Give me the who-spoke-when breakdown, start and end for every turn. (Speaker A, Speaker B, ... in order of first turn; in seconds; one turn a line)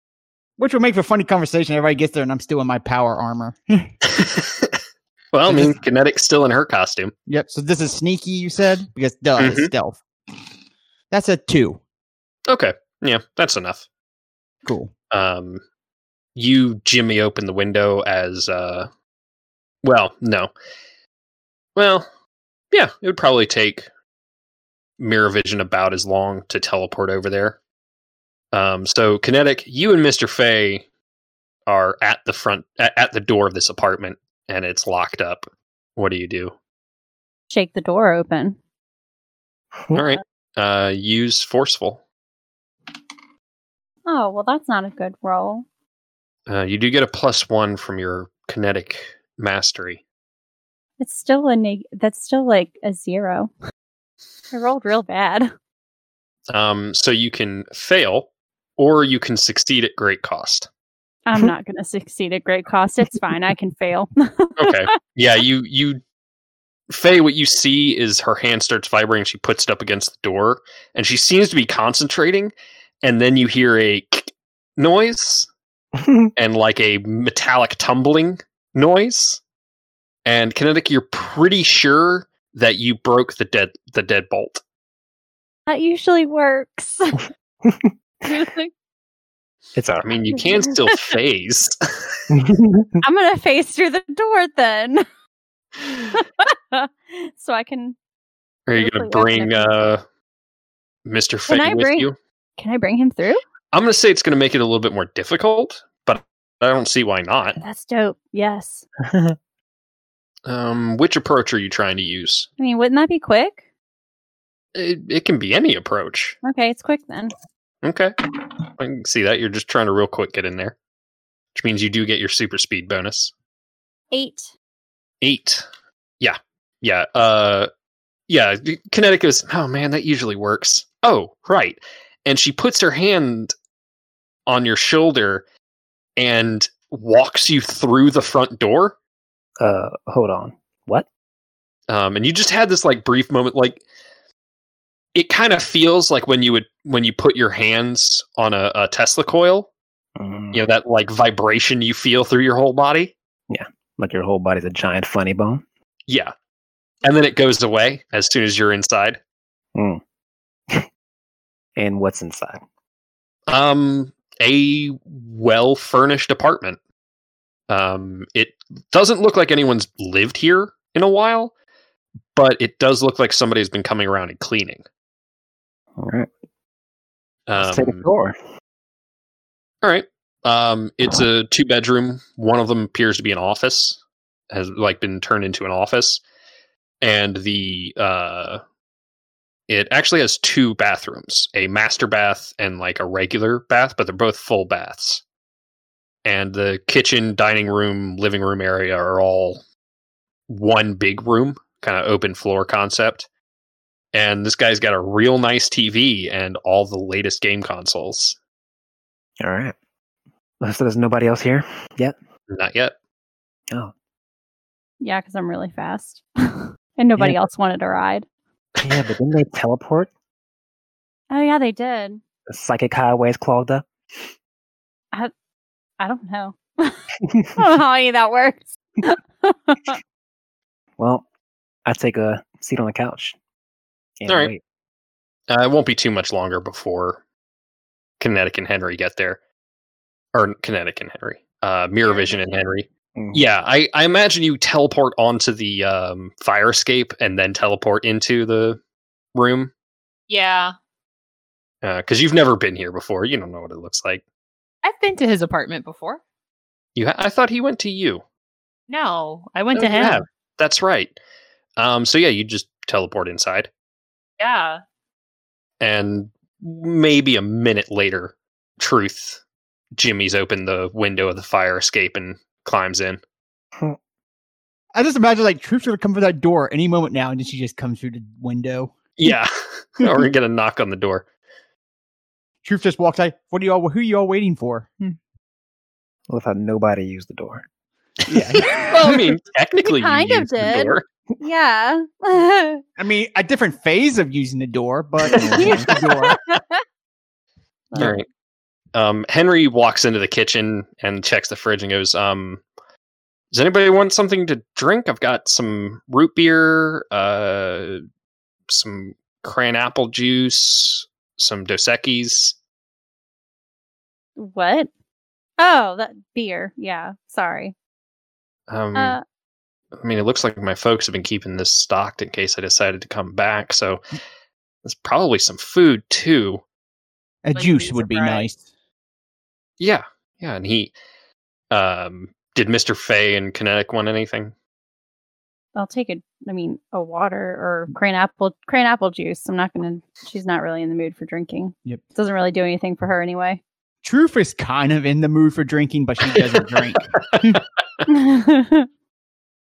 Speaker A: 0.6-3.9
Speaker B: 4.1-4.8
Speaker B: 5.3-7.1
Speaker A: 5.5-5.8
Speaker A: 7.3-10.0
Speaker B: 9.4-9.7
Speaker A: 11.1-11.8
Speaker B: 12.5-13.9
Speaker A: 14.7-14.9
Speaker B: 15.1-15.6
Speaker B: 16.4-18.9
Speaker B: 19.8-20.5
Speaker B: 21.8-22.1
Speaker B: 22.7-23.9
Speaker B: 25.0-27.6
Speaker B: 28.5-30.9
Speaker B: 31.7-36.5
Speaker C: 37.5-38.6
Speaker B: 39.9-42.0
Speaker C: 44.1-45.6
Speaker B: 46.5-50.0
Speaker C: 51.0-53.5
Speaker C: 54.5-55.5
Speaker B: 56.5-60.7
Speaker C: 61.3-65.0
Speaker B: 64.6-66.0
Speaker B: 66.9-75.5
Speaker B: 76.4-79.4
Speaker B: 80.2-84.6
Speaker C: 85.7-87.2
Speaker C: 88.2-88.7
Speaker D: 89.8-90.2
Speaker B: 90.0-91.7
Speaker C: 90.3-91.1
Speaker D: 92.3-92.9
Speaker C: 93.0-95.0
Speaker C: 95.9-98.0
Speaker B: 98.7-100.0
Speaker C: 98.8-99.9
Speaker B: 101.0-102.2
Speaker C: 101.5-103.4
Speaker B: 103.7-107.6
Speaker C: 107.6-108.8
Speaker B: 110.5-112.5
Speaker C: 112.6-113.6
Speaker B: 114.8-116.4
Speaker C: 116.4-117.3
Speaker B: 117.8-118.2
Speaker B: 118.8-120.8
Speaker B: 121.5-123.3
Speaker C: 124.1-124.5
Speaker B: 125.2-125.7
Speaker B: 126.2-127.7
Speaker B: 128.3-133.5
Speaker B: 134.5-135.4
Speaker B: 136.2-139.0
Speaker D: 139.6-141.1
Speaker B: 141.9-143.8
Speaker B: 145.2-149.7
Speaker D: 150.2-150.6
Speaker B: 150.5-153.2
Speaker D: 153.5-155.6
Speaker B: 156.1-156.3
Speaker B: 157.0-159.2
Speaker D: 159.8-160.0
Speaker D: 161.8-162.6
Speaker B: 163.5-166.8
Speaker B: 167.7-171.5
Speaker B: 172.3-174.8
Speaker D: 176.0-176.3
Speaker B: 177.5-178.1
Speaker D: 177.6-178.4
Speaker B: 179.8-184.0
Speaker B: 184.5-186.2
Speaker B: 187.0-188.6
Speaker B: 189.7-195.2
Speaker B: 196.2-199.6
Speaker B: 200.5-203.3
Speaker B: 204.1-208.4
Speaker D: 209.4-209.8
Speaker D: 210.6-212.2
Speaker B: 212.5-212.9
Speaker C: 215.0-218.2
Speaker D: 218.8-220.1
Speaker C: 221.3-222.2
Speaker D: 222.5-223.9
Speaker C: 226.0-227.0
Speaker C: 227.6-230.0
Speaker D: 231.0-231.3
Speaker D: 231.9-233.4
Speaker D: 234.2-234.6
Speaker B: 234.3-234.5
Speaker B: 235.5-237.2
Speaker B: 238.2-239.4
Speaker B: 240.3-248.8
Speaker E: 242.1-242.7
Speaker D: 243.2-243.4
Speaker B: 249.3-249.7
Speaker E: 250.3-250.7
Speaker B: 251.8-254.2
Speaker E: 254.8-256.2
Speaker B: 257.0-258.2
Speaker E: 258.9-260.2
Speaker B: 259.8-261.2
Speaker B: 261.8-263.7
Speaker E: 264.4-264.8
Speaker B: 265.8-269.4
Speaker B: 270.0-273.2
Speaker A: 274.9-279.3
Speaker B: 279.2-281.3
Speaker A: 280.0-280.3
Speaker A: 282.6-285.1
Speaker D: 286.3-287.7
Speaker A: 288.3-289.3
Speaker B: 288.8-291.0
Speaker C: 289.9-292.8
Speaker A: 293.0-296.4
Speaker D: 295.4-295.9
Speaker C: 295.8-296.7
Speaker B: 298.0-298.3
Speaker B: 298.9-302.6
Speaker B: 303.5-308.0
Speaker B: 308.7-312.6
Speaker C: 314.4-314.9
Speaker C: 315.6-317.7
Speaker B: 318.7-319.2
Speaker C: 318.9-319.2
Speaker B: 320.0-324.0
Speaker B: 324.8-326.6
Speaker A: 327.4-328.6
Speaker E: 327.6-328.5
Speaker B: 329.8-330.9
Speaker B: 331.7-334.5
Speaker C: 335.8-343.6
Speaker A: 344.0-347.6
Speaker C: 348.1-348.9